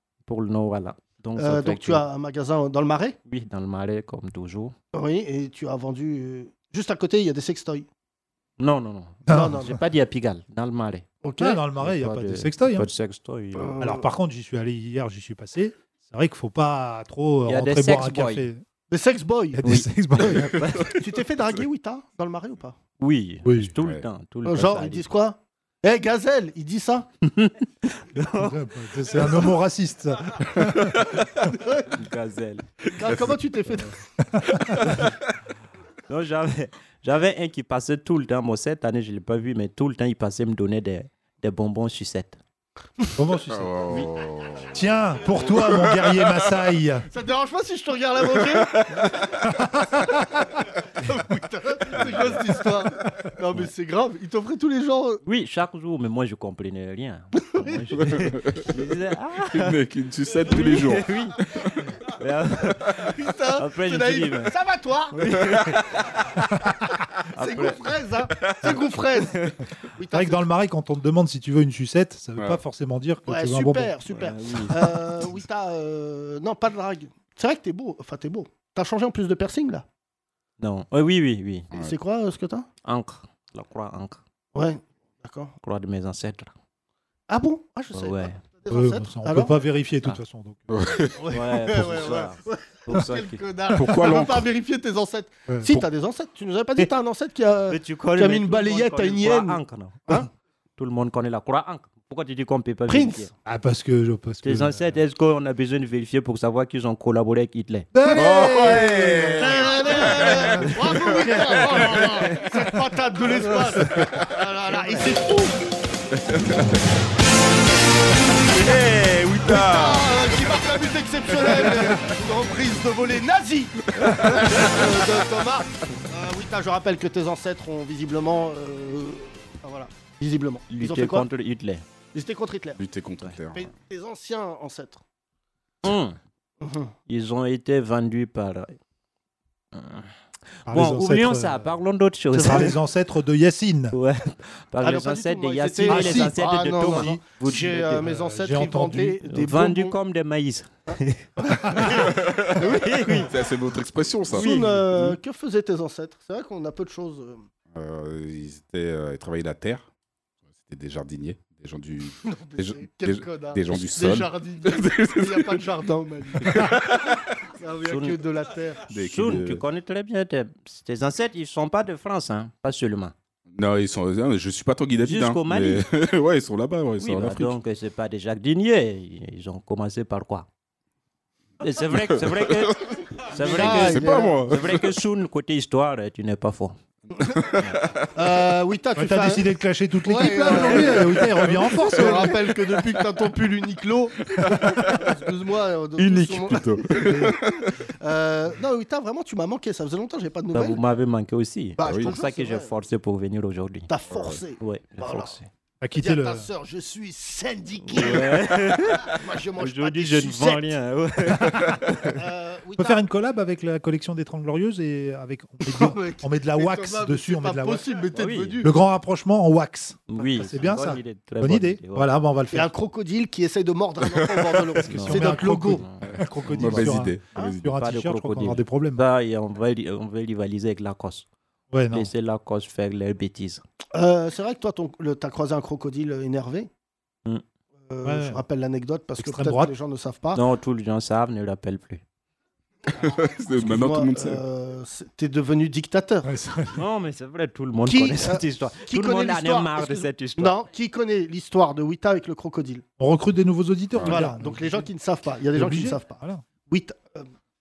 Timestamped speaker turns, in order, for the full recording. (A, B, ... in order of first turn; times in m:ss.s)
0:00.3-0:02.0 A
0:01.4-0:03.2 B
0:03.3-0:04.8 A
0:04.9-0:07.9 B
0:08.6-0:11.1 A
0:09.3-0:09.8 B
0:09.3-0:09.6 C
0:11.2-0:11.6 B
0:11.4-0:12.9 C
0:11.8-0:13.8 A
0:13.6-0:14.1 B
0:13.8-0:18.6 C
0:17.5-0:18.5 A
0:18.9-0:19.6 B
0:19.6-0:20.6 C
0:19.6-0:20.9 A
0:20.9-0:22.8 B
0:23.0-0:25.0 A
0:23.4-0:23.7 C
0:24.4-0:27.1 B
0:27.2-0:28.6 A
0:28.4-0:31.0 C
0:31.4-0:31.9 B
0:31.9-0:32.7 A
0:32.9-0:33.9 B
0:34.4-0:34.6 C
0:34.8-0:35.1 A
0:36.1-0:42.4 A
0:43.2-0:43.7 C
0:43.5-0:44.8 D
0:44.7-0:47.1 C
0:45.4-0:46.4 D
0:47.1-0:48.8 B
0:48.4-0:49.0 D
0:51.0-0:55.2 B
0:55.2-0:59.8 A
0:57.6-0:57.9 B
0:58.1-0:58.6 D
0:59.5-1:01.9 D
1:00.5-1:01.4 A
1:02.1-1:04.5 A
1:03.1-1:05.3 B
1:05.1-1:05.9 A
1:07.3-1:07.8 A
1:07.4-1:10.4 B
1:10.1-1:13.9 C
1:12.4-1:12.6 D
1:13.3-1:19.9 B
1:14.1-1:14.9 A
1:20.6-1:21.7 A
1:21.8-1:22.7 B
1:22.8-1:24.2 A
1:24.6-1:25.5 B
1:25.6-1:26.5 A
1:27.3-1:29.6 B
1:27.9-1:28.4 A
1:28.7-1:30.7 C
1:30.7-1:31.2 D
1:31.2-1:40.3 B
1:31.3-1:33.4 A
1:33.7-1:34.5 D
1:35.5-1:35.8 C
1:37.7-1:40.1 A
1:40.8-1:43.3 A
1:42.9-1:43.3 B
1:43.4-1:45.0 C
1:44.4-1:47.9 A
1:47.9-1:49.5 C
1:48.1-1:52.2 D
1:49.4-1:55.6 B
1:56.3-1:56.7 D
1:58.5-2:00.2 D
1:59.5-2:11.3 B
2:01.4-2:02.0 D
2:04.0-2:04.8 D
2:10.7-2:11.8 A
2:12.1-2:12.8 B
2:12.8-2:13.7 D
2:13.6-2:15.0 B
2:15.8-2:16.2 A
2:16.6-2:16.9 B
2:17.1-2:18.8 A
2:19.7-2:20.1 A
2:20.7-2:22.8 A
2:20.7-2:21.7 C
2:22.3-2:24.0 C
2:23.9-2:28.0 A
2:24.8-2:30.0 B
2:25.9-2:29.2 C
2:29.2-2:31.8 A
2:30.9-2:33.2 B
2:32.2-2:32.6 D
2:32.6-2:33.3 A
2:33.2-2:34.6 D
2:34.3-2:35.2 A
2:34.3-2:37.4 B
2:37.7-2:39.8 D
2:40.6-2:45.6 D
2:42.3-2:46.7 B
2:46.4-2:47.2 D
2:47.6-2:48.8 B
2:47.8-2:48.2 A
2:48.9-2:49.6 D
2:48.9-2:53.2 A
2:53.6-2:57.5 D
2:55.0-2:55.9 A
2:57.0-3:00.5 A
3:01.6-3:06.8 A
3:02.2-3:04.9 D
3:03.4-3:04.5 B
3:07.3-3:08.1 D
3:08.2-3:09.5 B
3:09.0-3:12.4 C
3:10.0-3:17.4 B
3:14.4-3:15.1 D
3:16.0-3:17.7 D
3:18.0-3:20.8 B
3:20.5-3:23.9 A
3:21.8-3:22.7 B
3:21.8-3:22.1 D
3:23.9-3:25.3 B
3:24.1-3:24.4 D
3:24.6-3:25.5 A
3:25.8-3:26.5 C
3:26.0-3:28.4 B
3:27.9-3:32.2 A
3:29.1-3:30.7 B
3:32.1-3:33.1 B
3:32.8-3:37.8 C
3:35.6-3:38.8 B
3:38.1-3:38.6 A
3:38.6-3:42.7 C
3:40.1-3:42.1 A
3:42.5-3:45.9 B
3:44.9-3:49.0 C
3:44.9-3:46.0 A
3:46.0-3:47.6 D
3:47.6-3:51.3 A
3:51.7-3:52.1 C
3:51.9-3:53.6 A
3:53.9-3:56.7 B
3:57.9-4:00.4 B
3:58.0-3:58.4 C
3:59.2-3:59.7 C
4:00.3-4:02.0 A
4:02.9-4:04.4 D
4:03.6-4:06.3 B
4:06.2-4:06.8 C
4:06.7-4:10.6 A
4:07.9-4:12.8 B
4:13.0-4:14.9 C
4:13.9-4:14.2 D
4:14.0-4:17.3 B
4:15.5-4:16.4 C